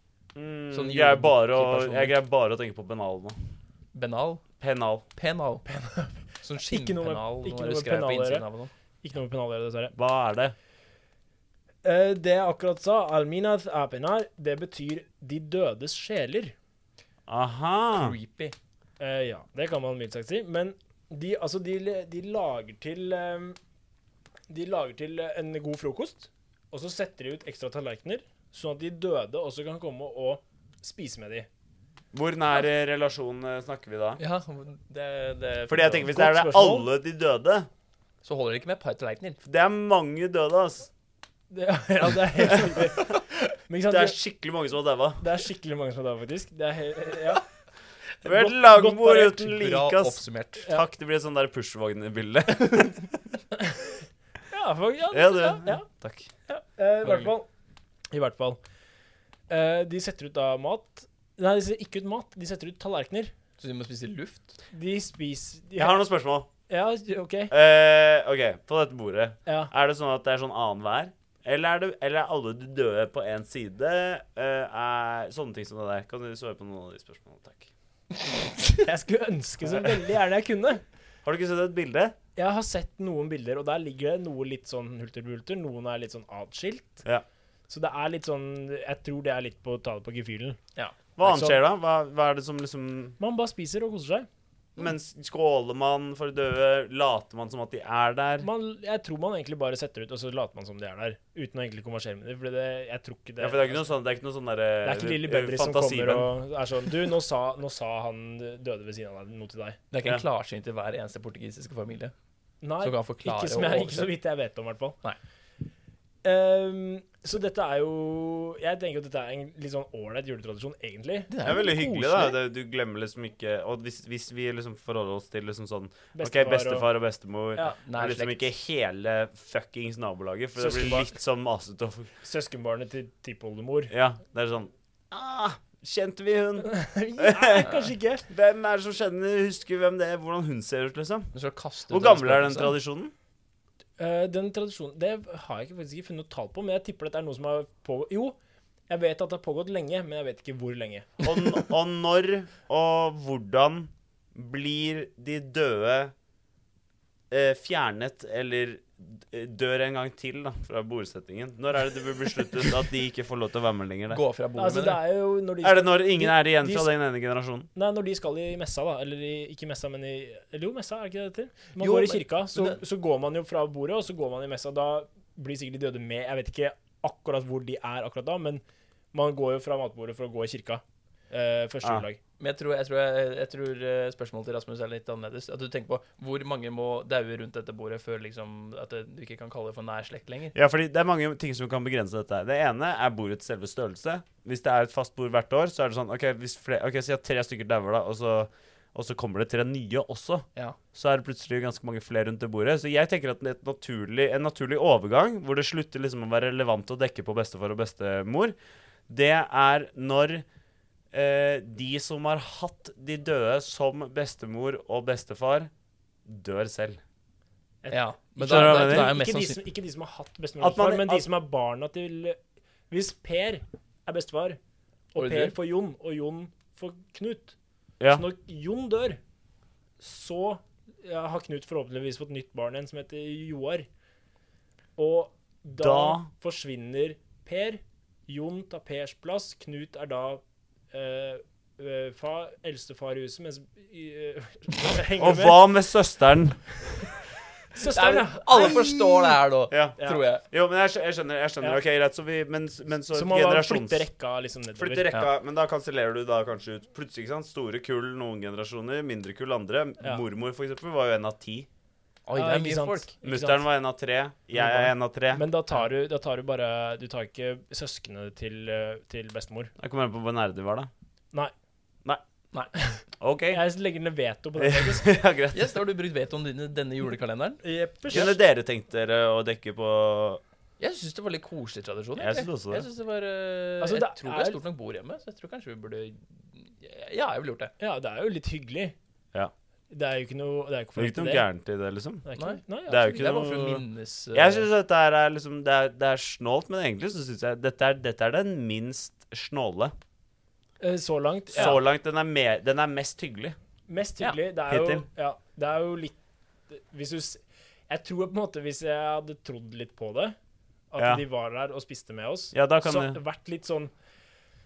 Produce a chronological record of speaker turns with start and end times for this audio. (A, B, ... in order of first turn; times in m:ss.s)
0:00.3-0:03.4 A
0:00.7-0:02.1 B
0:03.9-0:04.4 B
0:04.6-0:05.0 A
0:05.2-0:05.7 B
0:05.6-0:08.5 C
0:06.4-0:08.7 B
0:09.0-0:09.9 C
0:09.9-0:10.5 A
0:11.8-0:16.5 C
0:17.3-0:18.2 A
0:17.9-0:18.5 B
0:19.0-0:23.6 C
0:24.5-0:31.5 C
0:32.1-0:34.2 A
0:34.2-0:36.1 B
0:35.7-0:37.7 A
0:36.1-0:36.9 C
0:38.2-0:39.4 B
0:39.4-0:40.9 A
0:41.5-0:44.2 C
0:43.9-0:45.2 A
0:45.2-0:47.4 C
0:48.2-0:53.1 A
0:48.2-0:49.5 C
0:49.4-0:50.7 B
0:53.6-0:53.9 C
0:54.5-0:55.8 C
0:55.1-0:56.3 A
0:56.5-0:57.3 B
0:56.7-0:57.5 C
0:58.1-0:58.6 C
0:59.5-1:03.3 C
1:03.6-1:04.5 B
1:04.7-1:06.0 C
1:05.8-1:06.5 A
1:06.7-1:07.5 C
1:07.5-1:17.7 A
1:09.4-1:09.7 C
1:18.8-1:20.8 C
1:21.2-1:22.1 A
1:22.4-1:27.0 C
1:27.7-1:30.6 C
1:31.2-1:33.2 A
1:31.2-1:31.5 C
1:33.2-1:34.2 C
1:34.8-1:38.5 A
1:38.4-1:43.8 C
1:43.4-1:46.3 A
1:44.8-1:49.8 C
1:49.9-1:52.1 B
1:52.6-1:55.0 C
1:52.8-1:54.1 B
1:56.2-2:01.3 C
2:01.3-2:02.4 B
2:01.4-2:12.1 A
2:06.1-2:06.9 C
2:07.8-2:08.5 B
2:10.6-2:11.1 C
2:12.2-2:13.9 C
2:13.9-2:21.3 A
2:16.6-2:18.2 C
2:21.3-2:22.7 B
2:21.9-2:23.1 A
2:24.0-2:28.4 C
2:28.9-2:31.2 C
2:31.2-2:36.1 A
2:37.3-2:44.2 A
2:44.1-2:45.0 B
2:44.6-2:46.9 C
2:45.6-2:47.7 A
2:47.7-3:02.2 C
2:51.8-2:52.8 B
3:02.4-3:10.5 B
3:10.5-3:28.5 A
3:29.1-3:30.4 A
3:31.1-3:35.7 A
3:36.3-3:37.0 A
3:37.8-3:42.4 C
3:37.9-3:39.6 B
3:38.4-3:39.2 A
3:40.6-3:41.3 A
3:42.9-3:44.6 C
3:45.1-3:47.5 C
3:45.1-3:45.5 B
3:48.0-3:48.2 A
3:48.1-3:49.2 C
3:50.0-3:53.8 C
3:55.0-4:05.7 C
3:55.8-3:56.3 A
4:05.2-4:06.9 A
4:07.7-4:09.3 C
4:07.9-4:10.4 B
4:09.7-4:10.0 A
4:10.0-4:10.2 C
4:10.5-4:14.1 A
4:13.1-4:15.0 C
4:14.8-4:21.7 A
4:22.3-4:23.6 B
4:22.3-4:23.2 C
4:23.2-4:25.4 A
4:24.6-4:29.7 C
4:29.8-4:30.9 A
4:33.2-4:33.6 A
4:33.5-4:35.2 C
4:34.6-4:35.8 A
4:35.5-4:38.3 B
4:37.6-4:38.4 C
4:38.1-4:40.4 A
4:40.8-4:47.7 B
4:42.2-4:42.9 A
4:43.8-4:44.6 C
4:47.8-4:48.9 C
4:49.9-4:51.4 C
4:51.0-4:52.2 A
4:52.2-4:53.3 C
4:52.3-4:54.6 B
4:52.9-4:59.9 A
5:00.8-5:01.8 C
5:01.5-5:03.6 A
5:03.9-5:06.2 C
5:04.7-5:05.1 A
5:06.7-5:10.3 C
5:10.9-5:13.9 C
5:11.0-5:11.2 A
5:12.5-5:13.2 A